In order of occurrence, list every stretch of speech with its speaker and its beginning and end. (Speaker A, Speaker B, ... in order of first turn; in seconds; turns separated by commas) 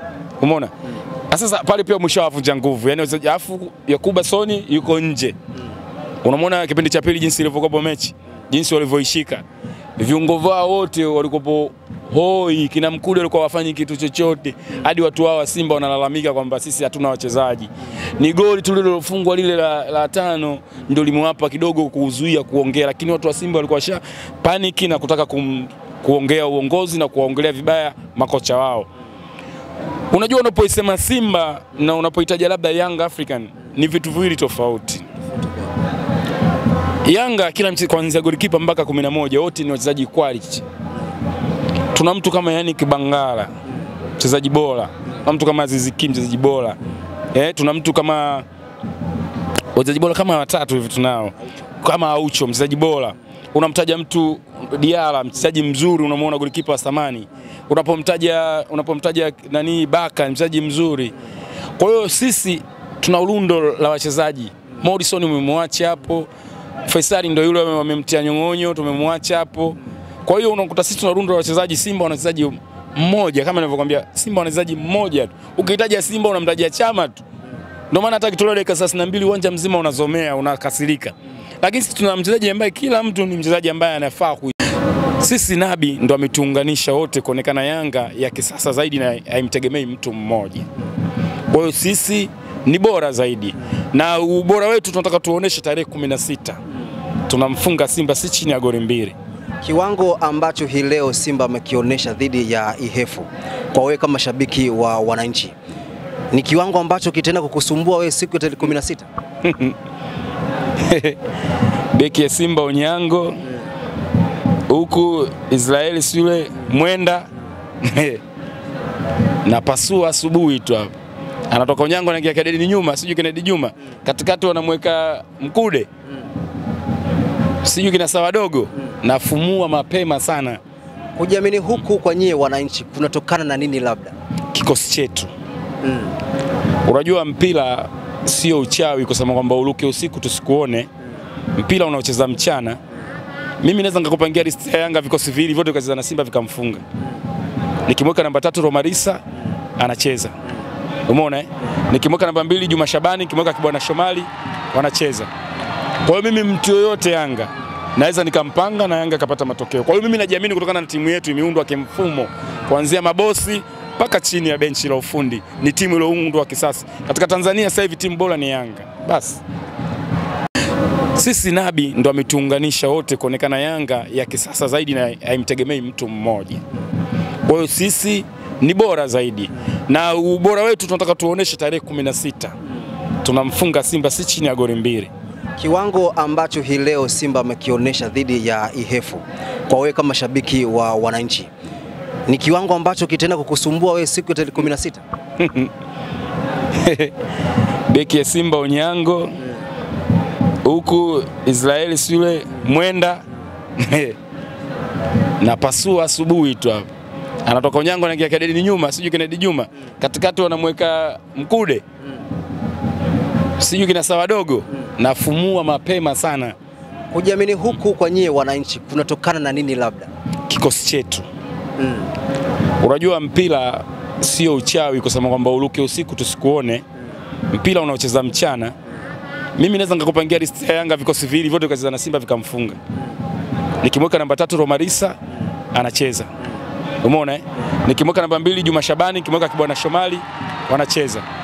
Speaker A: 0.4-0.7, Speaker A: 1.3-5.3, Speaker A: 6.2-9.4, Speaker A: 10.0-28.9, Speaker A: 30.1-35.1, Speaker A: 37.0-40.6, Speaker A: 41.9-43.5, Speaker A: 44.2-46.8, Speaker A: 47.3-48.5, Speaker A: 49.7-61.2, Speaker A: 61.8-66.3, Speaker A: 66.8-77.2, Speaker A: 77.9-84.5, Speaker A: 85.2-90.7, Speaker A: 91.5-96.6, Speaker A: 97.3-99.2, Speaker B: 99.6-105.5, Speaker B: 106.3-109.1, Speaker A: 109.4-109.8, Speaker A: 110.8-111.2, Speaker A: 111.9-113.5, Speaker A: 114.7-117.3, Speaker A: 117.8-118.2, Speaker A: 119.4-120.9, Speaker A: 121.5-125.9, Speaker A: 127.6-130.6, Speaker B: 131.2-134.1, Speaker A: 134.5-135.3, Speaker B: 135.8-136.1, Speaker A: 136.8-140.9, Speaker A: 141.6-142.8, Speaker A: 143.6-146.8, Speaker A: 147.9-149.2, Speaker A: 149.8-150.3, Speaker A: 151.1-155.3, Speaker A: 156.0-169.4, Speaker A: 171.2-176.6, Speaker A: 177.5-182.6, Speaker A: 183.2-185.1, Speaker B: 185.6-191.5, Speaker B: 192.3-195.0, Speaker A: 195.4-195.7, Speaker A: 196.8-197.1, Speaker A: 197.9-199.4, Speaker A: 200.6-203.2, Speaker A: 203.8-204.2, Speaker A: 205.4-206.9, Speaker A: 207.4-211.8, Speaker A: 213.6-216.6, Speaker B: 217.1-220.1, Speaker A: 220.5-221.2, Speaker B: 221.8-222.1, Speaker A: 222.8-226.8, Speaker A: 227.5-228.7, Speaker A: 229.6-232.8, Speaker A: 233.8-235.2, Speaker A: 235.7-236.3, Speaker A: 237.0-241.2